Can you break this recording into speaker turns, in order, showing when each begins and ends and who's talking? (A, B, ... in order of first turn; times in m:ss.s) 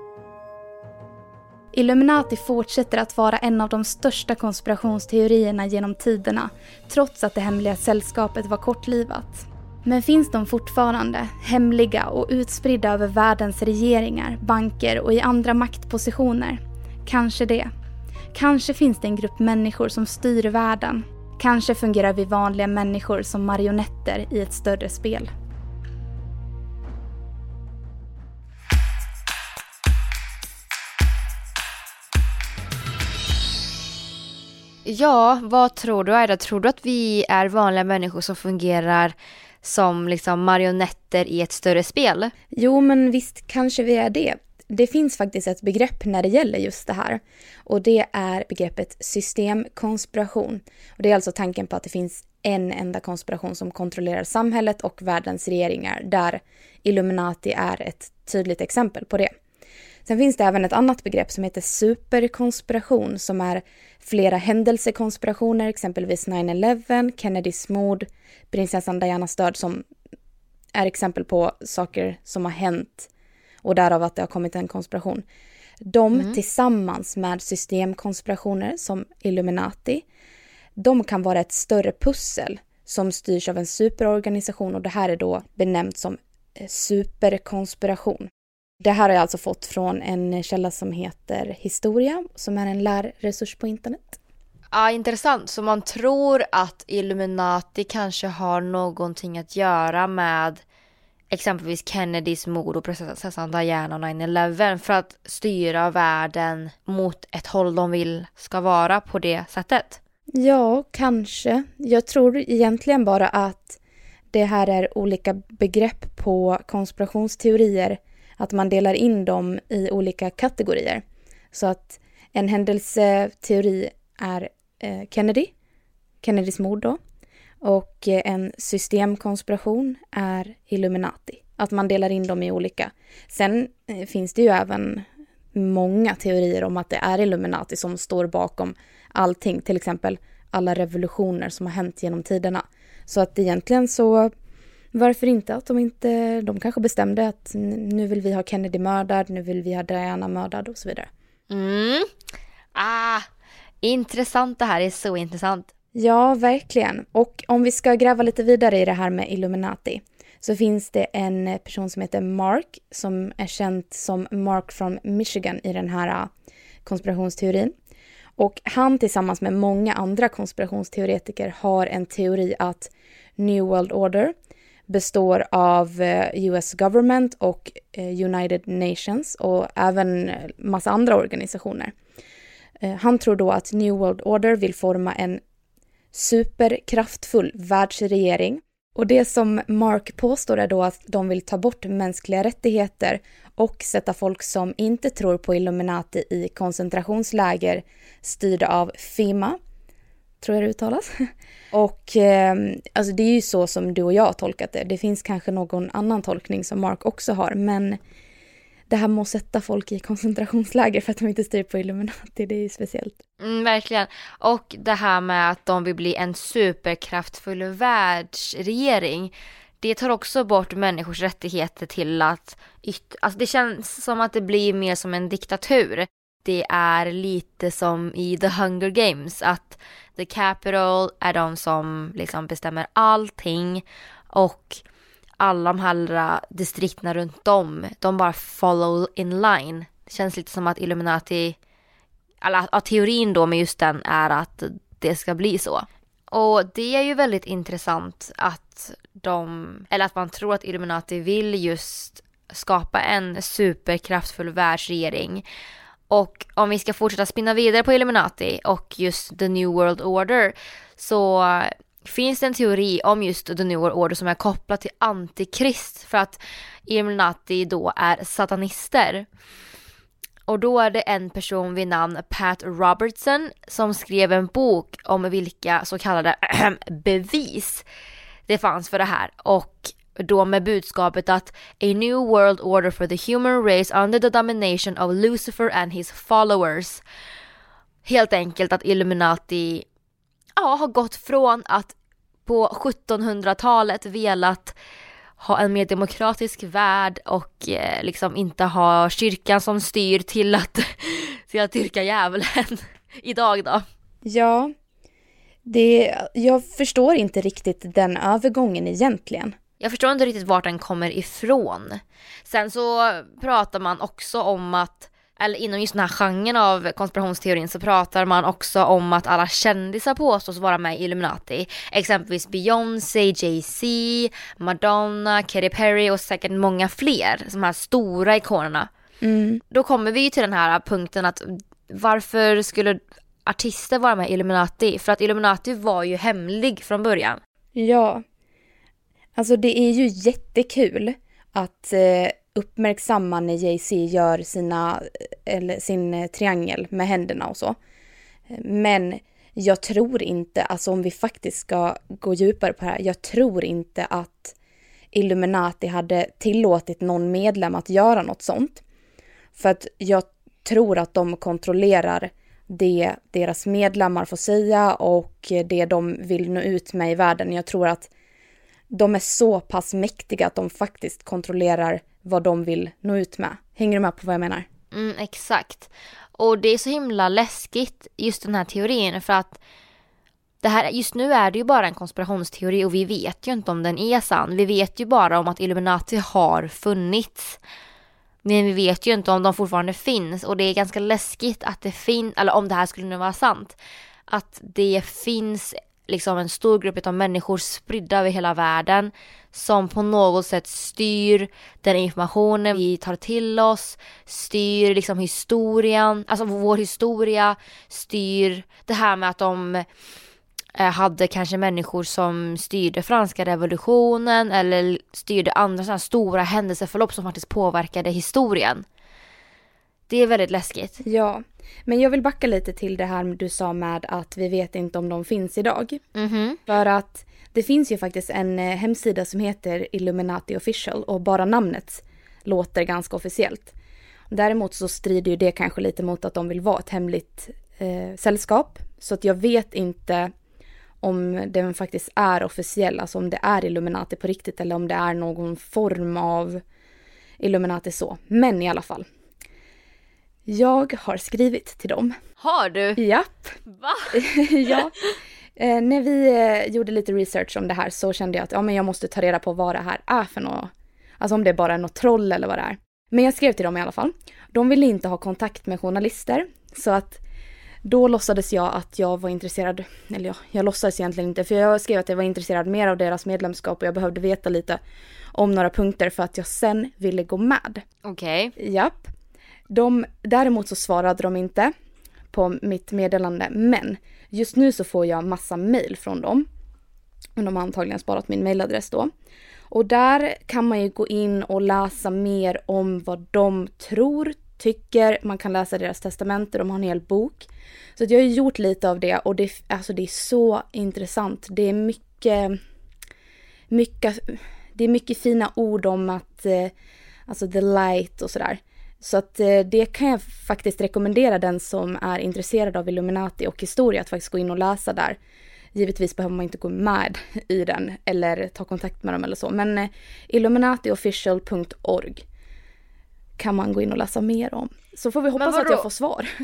0:01.7-0:17.7 A
0:18.3-0:25.3 A
0:34.9-0:42.3 B
0:42.5-0:59.3 A
1:00.1-1:09.8 A
1:10.8-1:13.1 A
1:13.6-1:15.2 A
1:15.8-1:20.0 A
1:20.8-1:28.3 A
1:28.8-1:34.2 A
1:34.7-1:40.6 B
1:41.3-1:50.0 B
1:50.4-1:53.8 A
1:54.3-2:05.5 A
2:06.2-2:07.0 A
2:07.6-2:24.3 A
2:24.9-2:31.1 A
2:31.5-2:32.1 B
2:32.8-2:33.2 B
2:33.8-2:35.7 B
2:36.0-2:46.3 A
2:46.9-2:47.7 A
2:48.4-2:54.3 A
2:54.9-3:01.9 A
3:02.8-3:05.4 A
3:06.1-3:19.6 A
3:20.4-3:28.0 A
3:28.9-3:33.2 A
3:33.4-3:54.8 B
3:55.4-4:01.6 B
4:02.4-4:15.4 B
4:16.1-4:29.3 B
4:30.5-4:37.8 B
4:38.5-4:47.0 B
4:48.0-4:49.9 B
4:50.6-4:52.0 B
4:52.5-4:54.8 B
4:55.4-5:03.9 B
5:04.2-5:04.7 A
5:05.7-5:09.6 A
5:09.8-5:28.9 B
5:29.2-5:29.6 A
5:29.7-5:37.4 B
5:37.8-5:38.2 A
5:39.4-5:47.8 A
5:48.5-5:54.5 A
5:55.1-5:58.8 A
5:59.6-6:08.1 A
6:08.9-6:14.7 A
6:14.9-6:19.6 B
6:20.6-6:27.6 B
6:28.4-6:33.8 B
6:34.3-6:49.9 B
6:50.8-6:58.8 B
7:00.1-7:01.0 B
7:01.0-7:06.0 A
7:06.2-7:06.6 B
7:06.7-7:13.7 A
7:14.3-7:20.3 A
7:21.0-7:26.6 A
7:27.4-7:29.1 A
7:30.5-7:32.1 A
7:32.4-7:33.0 B
7:33.0-7:33.5 A
7:33.7-7:34.2 B
7:34.2-7:34.9 A
7:35.6-7:47.2 A
7:47.8-7:54.8 A
7:55.4-7:57.8 A
7:58.0-7:58.5 B
7:58.6-7:59.1 A
7:59.7-8:01.7 A
8:02.3-8:06.5 A
8:07.4-8:09.1 A
8:09.7-8:17.5 A
8:18.0-8:22.6 A
8:23.7-8:26.7 A
8:27.3-8:35.2 A
8:35.8-8:42.2 A
8:43.4-8:46.3 A
8:45.4-8:45.9 B